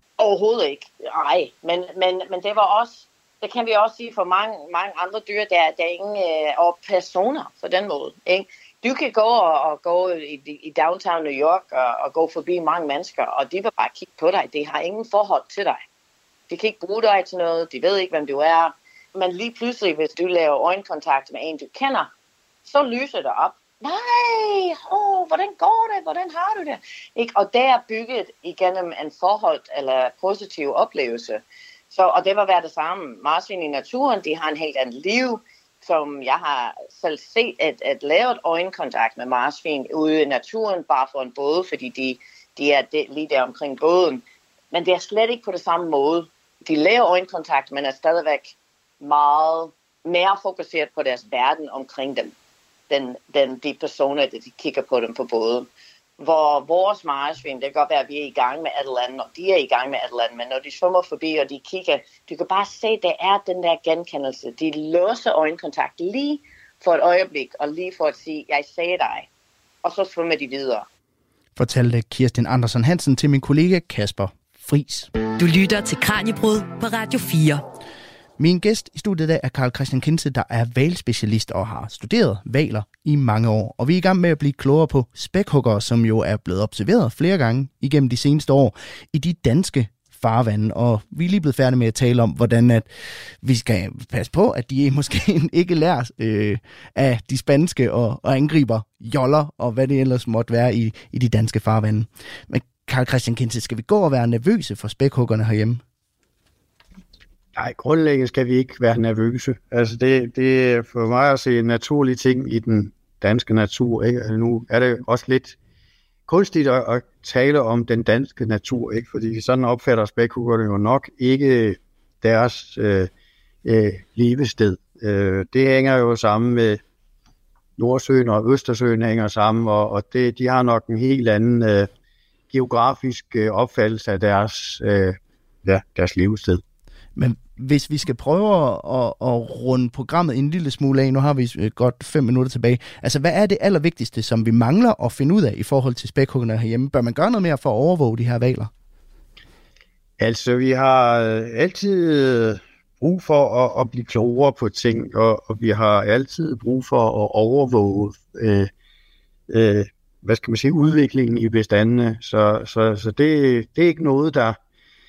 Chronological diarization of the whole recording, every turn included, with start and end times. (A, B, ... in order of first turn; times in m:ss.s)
0:00.2-0:15.8 A
0:16.5-0:22.1 A
0:22.6-0:52.4 A
0:52.9-1:09.3 A
1:09.8-1:10.9 A
1:11.6-1:15.1 B
1:15.4-1:17.6 C
1:18.4-1:32.9 B
1:33.4-1:45.8 B
1:47.6-1:55.6 D
1:56.3-2:03.1 D
2:03.6-2:06.8 D
2:07.8-2:11.9 D
2:12.5-2:16.6 D
2:17.2-2:28.7 B
2:30.2-2:38.7 D
2:39.5-2:44.6 D